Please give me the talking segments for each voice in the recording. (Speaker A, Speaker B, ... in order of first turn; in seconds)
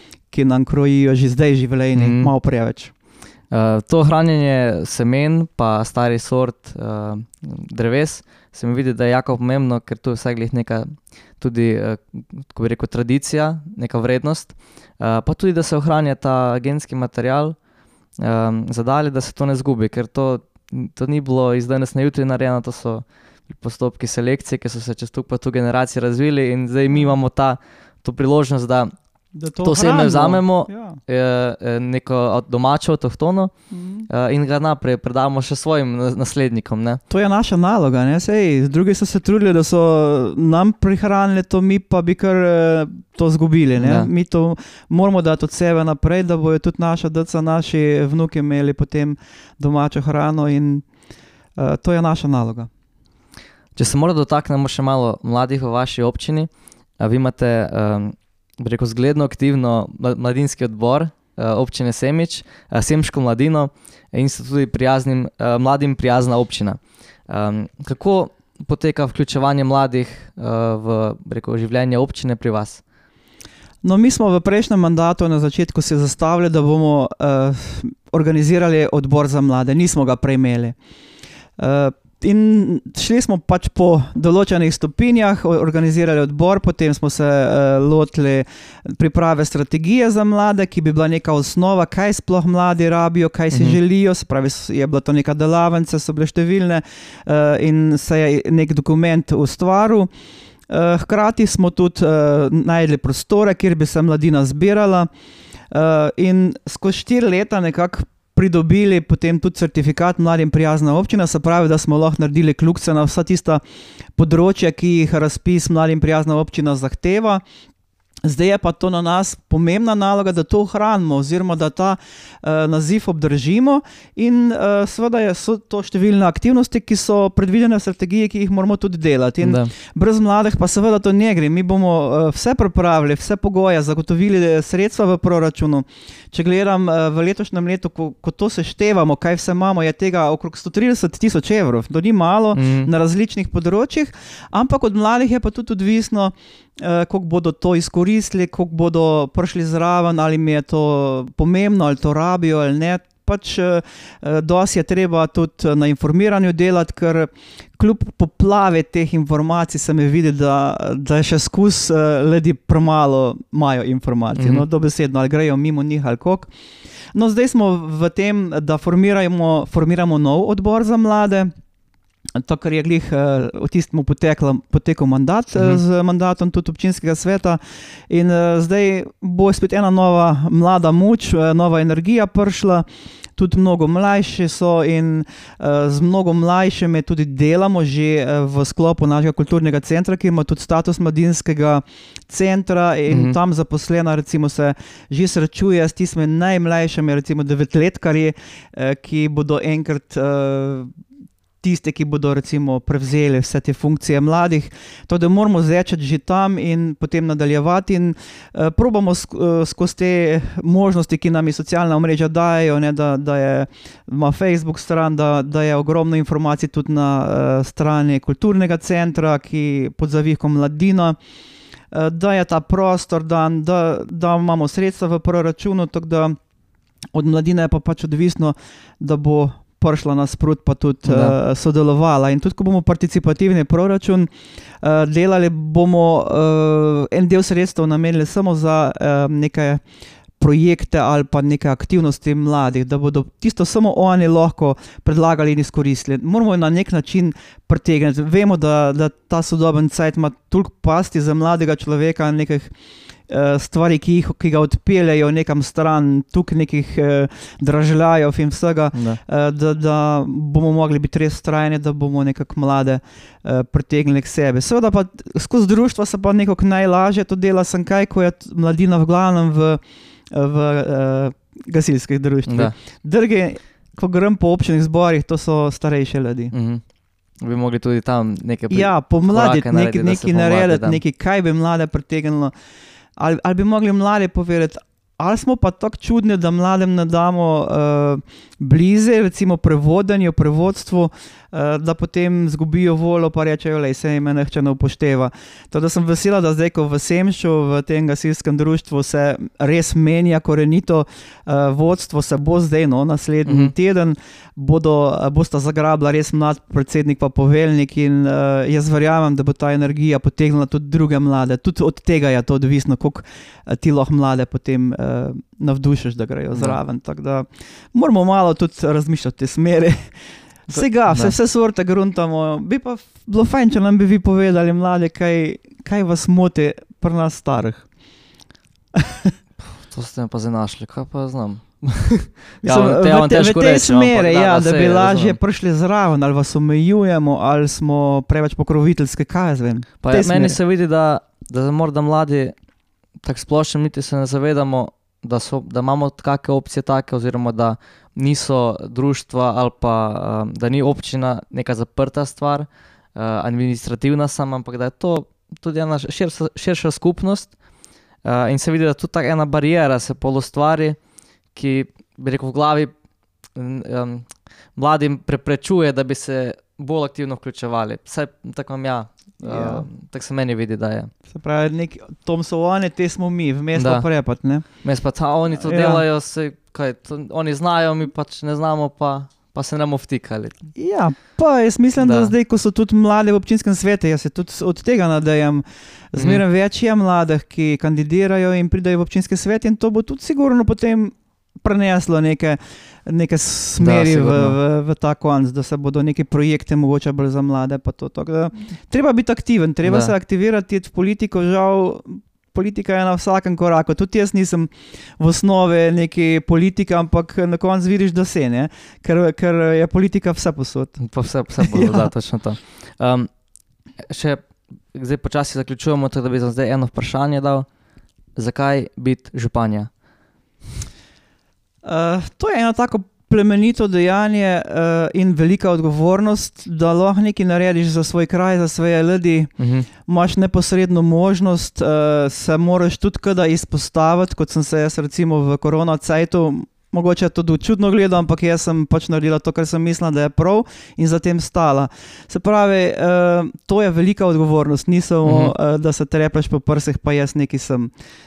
Speaker A: 0.3-2.9, 29.4-31.0, 33.7-34.1, 37.1-50.9, 51.6-52.7, 73.8-80.8, 81.6-100.1, 100.7-105.1, 105.7-113.6, 114.2-117.4, 118.2-166.5, 167.2-171.5, 172.4-182.8, 183.4-200.9, 201.6-221.2, 221.9-226.4, 227.1-239.8, 240.4-252.7, 253.3-269.8, 270.3-276.5, 278.7-282.5, 283.2-320.1, 320.7-327.9, 328.9-329.3, 332.6-340.6, 369.4-369.9, 371.3-374.7, 375.6-376.0, 380.8-411.1, 411.6-412.1, 421.8-447.9
Speaker B: 1.9-2.3, 3.5-17.6, 18.2-28.9, 29.6-33.5, 34.1-37.0, 43.8-44.1, 53.8-72.8, 93.5-93.8, 129.4-129.7, 142.5-142.9, 164.4-164.6, 193.1-193.4, 231.1-231.4, 272.5-272.7, 276.5-276.8, 277.4-281.0, 303.5-303.7, 316.5-316.8, 320.7-321.3, 329.8-335.4, 340.0-342.5, 343.2-357.5, 358.2-361.0, 361.5-362.9, 363.6-371.1, 373.8-374.1, 374.8-380.6, 382.0-382.3, 386.1-386.4, 393.8-394.6, 399.9-400.1, 411.0-413.3, 414.1-417.7, 418.4-419.9, 429.6-429.9, 445.2-445.5